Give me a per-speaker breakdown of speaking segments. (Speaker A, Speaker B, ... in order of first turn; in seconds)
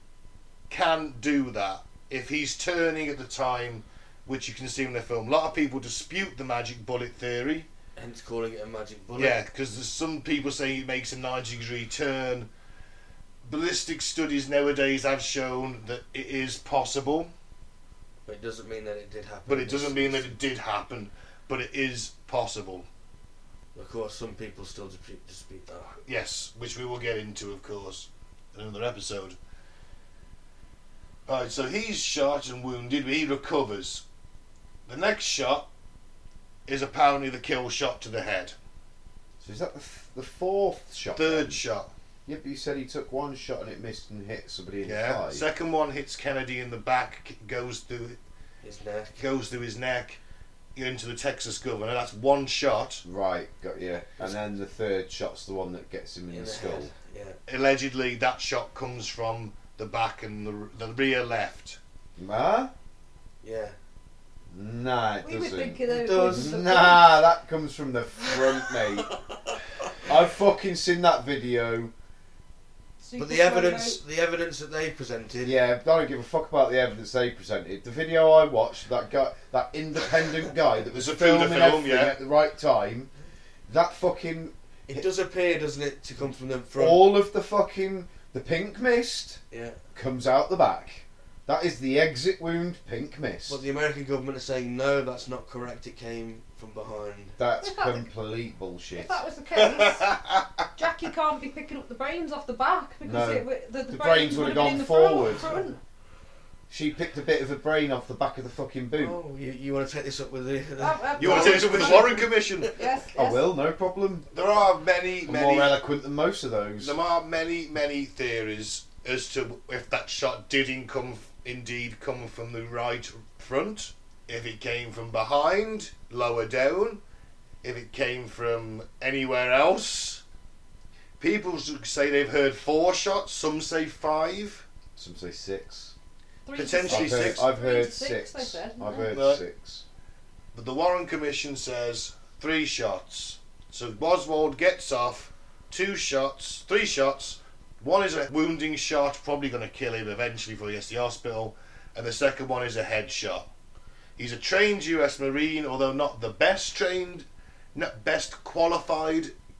Speaker A: 0.7-7.7, 9.1-12.5, 13.4-17.3, 19.4-22.9, 26.0-29.4, 31.3-34.0, 34.9-35.7, 36.7-38.5, 41.1-41.9, 44.8-48.2, 49.2-50.2, 50.8-53.0, 57.5-61.8, 80.9-82.2, 99.5-100.7, 111.2-112.7, 114.3-115.8, 116.8-127.0, 127.6-130.2, 131.2-134.6, 136.5-137.4, 139.1-139.4, 140.5-153.5, 154.2-159.3
Speaker B: 8.0-9.4, 18.2-20.4, 23.7-25.9, 48.6-49.2, 56.3-57.4, 63.4-63.8, 65.8-67.0, 68.3-69.6, 73.2-75.6, 84.9-87.1, 89.5-89.8, 93.5-97.4, 109.0-112.7
Speaker C: 39.4-41.6, 42.2-45.5, 53.0-56.9, 62.2-62.7, 64.5-69.1, 70.0-71.9, 75.4-83.1, 83.7-85.0, 86.8-89.4, 89.9-93.6, 97.4-99.2, 103.0-105.6, 106.7-109.2, 113.1-114.3, 115.2-117.0, 134.9-135.9, 136.9-139.8
Speaker D: 65.2-67.1, 73.0-74.0, 97.6-98.1, 98.9-100.1, 100.8-105.8, 110.8-113.4, 136.4-139.1